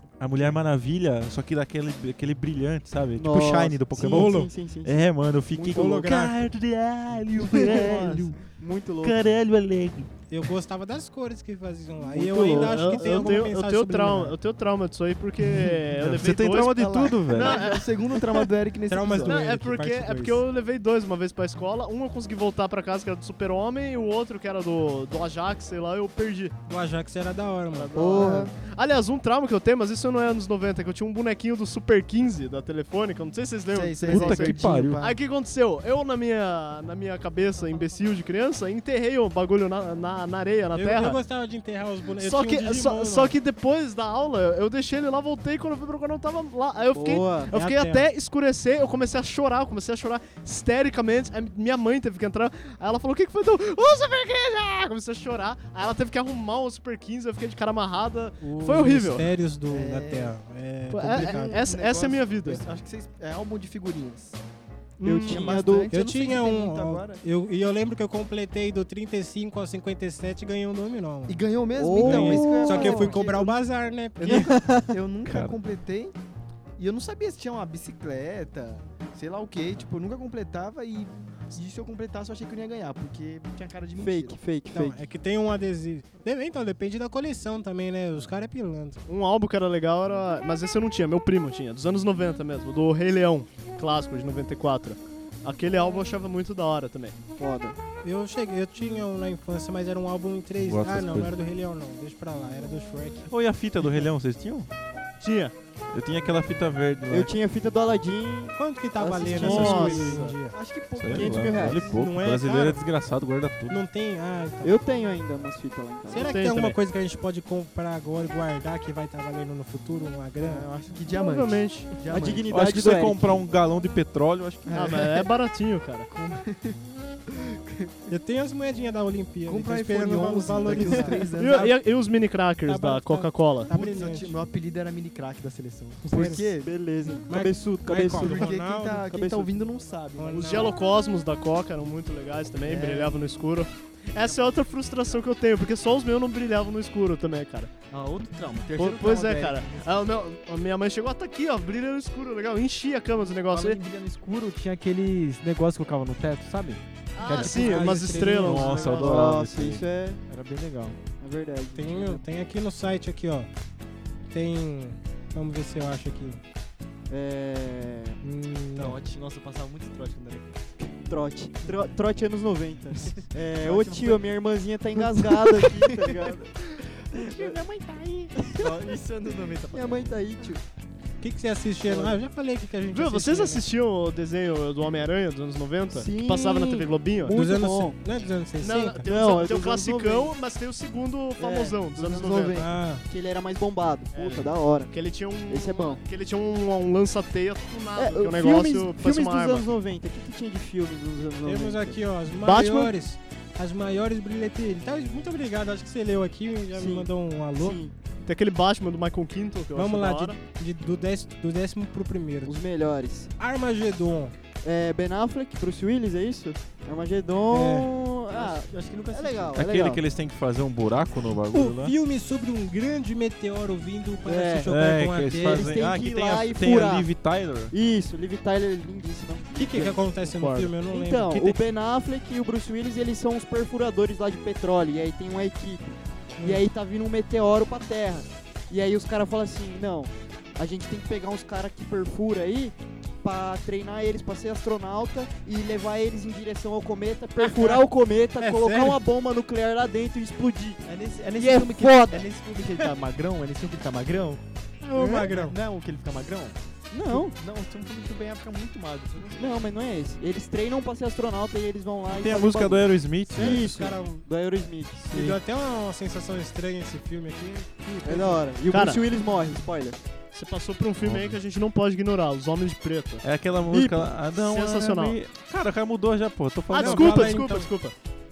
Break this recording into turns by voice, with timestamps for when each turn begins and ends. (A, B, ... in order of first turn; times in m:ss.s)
0:00.2-0:08.4 A
0:03.2-0:05.9 B
0:04.1-0:04.5 C
0:05.7-0:06.4 C
0:07.4-0:08.4 D
0:07.4-0:09.3 B
0:09.0-0:10.1 A
0:10.3-0:14.4 C
0:12.1-0:13.4 B
0:12.5-0:18.1 E
0:16.0-0:17.6 A
0:16.6-0:19.8 D
0:18.9-0:20.4 C
0:19.2-0:26.6 E
0:26.7-0:27.9 C
0:27.7-0:41.2 E
0:27.9-0:28.5 B
0:28.1-0:28.5 D
0:33.7-0:35.2 D
0:34.1-0:35.0 A
0:40.7-0:43.4 C
0:42.2-0:59.3 E
0:46.9-0:47.5 B
0:47.5-0:48.1 C
0:58.4-1:01.6 C
0:59.7-1:00.4 D
1:00.9-1:02.6 E
1:01.0-1:04.4 D
1:05.0-1:11.4 C
1:05.0-1:05.9 B
1:05.1-1:07.2 D
1:11.3-1:13.6 D
1:11.8-1:13.2 B
1:12.0-1:14.5 C
1:14.2-1:16.2 D
1:14.2-1:15.0 B
1:15.3-1:15.5 A
1:16.8-1:24.4 D
1:24.0-1:25.0 B
1:24.7-1:29.0 C
1:29.1-1:37.2 E
1:37.4-1:37.8 B
1:38.0-1:43.3 C
1:40.6-1:41.4 A
1:43.3-1:44.7 A
1:45.2-1:45.5 E
1:45.9-1:47.3 A
1:47.1-1:50.2 B
1:48.6-1:50.6 C
1:49.4-1:50.4 E
1:50.4-1:52.0 D
1:51.0-1:53.8 A
1:51.1-1:51.9 B
1:51.9-1:52.8 C
1:53.7-1:54.8 C
1:54.6-1:56.4 B
1:56.1-2:00.6 C
1:56.2-1:56.8 E
2:00.4-2:02.5 D
2:01.1-2:01.9 E
2:02.1-2:03.4 B
2:02.5-2:05.0 A
2:04.7-2:05.3 D
2:04.7-2:06.1 E
2:06.1-2:08.1 D
2:08.1-2:11.7 C
2:09.4-2:11.8 D
2:11.4-2:13.7 E
2:12.7-2:14.4 C
2:13.7-2:16.7 D
2:16.1-2:16.4 C
2:16.1-2:18.5 B
2:17.3-2:19.1 C
2:18.1-2:20.7 D
2:19.1-2:19.5 B
2:20.2-2:20.7 C
2:20.4-2:27.7 E
2:22.6-2:23.2 D
2:24.2-2:25.2 D
2:27.9-2:30.1 D
2:28.8-2:33.8 E
2:33.5-2:38.0 D
2:37.2-2:39.1 E
2:37.3-2:38.9 C
2:38.3-2:39.8 A
2:38.9-2:40.2 B
2:40.3-2:41.0 D
2:41.2-2:42.2 B
2:41.8-2:43.5 C
2:44.3-2:46.4 C
2:47.1-2:48.2 B
2:48.2-2:49.0 C
2:48.8-2:50.6 D
2:50.8-2:56.4 B
2:53.0-2:54.4 D
2:55.0-3:00.2 D
2:57.2-2:57.6 B
2:58.4-2:58.8 B
2:59.7-3:00.6 B
3:01.2-3:03.6 C
3:02.9-3:07.3 E
3:05.9-3:08.0 B
3:07.3-3:09.1 C
3:08.6-3:12.6 E
3:09.0-3:10.3 B
3:11.4-3:11.8 B
3:11.9-3:12.7 D
3:12.6-3:13.0 C
3:13.1-3:14.9 B
3:14.1-3:19.7 E
3:15.5-3:16.0 B
3:18.0-3:22.0 B
3:21.5-3:27.8 C
3:22.4-3:23.0 E
3:26.7-3:28.0 B
3:28.2-3:30.4 E
3:29.7-3:32.6 C
3:32.4-3:33.3 B
3:33.4-3:34.3 C
3:34.6-3:40.0 B
3:37.5-3:37.9 C
3:38.3-3:39.7 D
3:39.6-3:42.0 A
3:41.5-3:45.9 C
3:44.2-3:44.7 B
3:44.7-3:47.7 A
3:45.4-3:47.1 B
3:47.7-3:50.0 B
3:49.6-3:51.6 C
3:50.2-3:50.7 E
3:50.9-4:10.8 B
4:07.4-4:07.8 C
4:08.4-4:09.0 C
4:10.8-4:14.4 D
4:11.4-4:12.2 B
4:14.8-4:15.6 C
4:15.0-4:19.6 D
4:15.0-4:15.3 B
4:16.9-4:17.4 B
4:19.4-4:25.4 B
4:22.1-4:23.9 A
4:23.3-4:24.3 C
4:25.1-4:28.4 C
4:28.0-4:30.0 B
4:28.7-4:29.0 E
4:30.3-4:33.2 E
4:31.0-4:31.4 A
4:33.2-4:37.4 A
4:33.7-4:34.1 B
4:34.3-4:35.2 E
4:36.7-4:37.9 E
4:36.7-4:37.7 C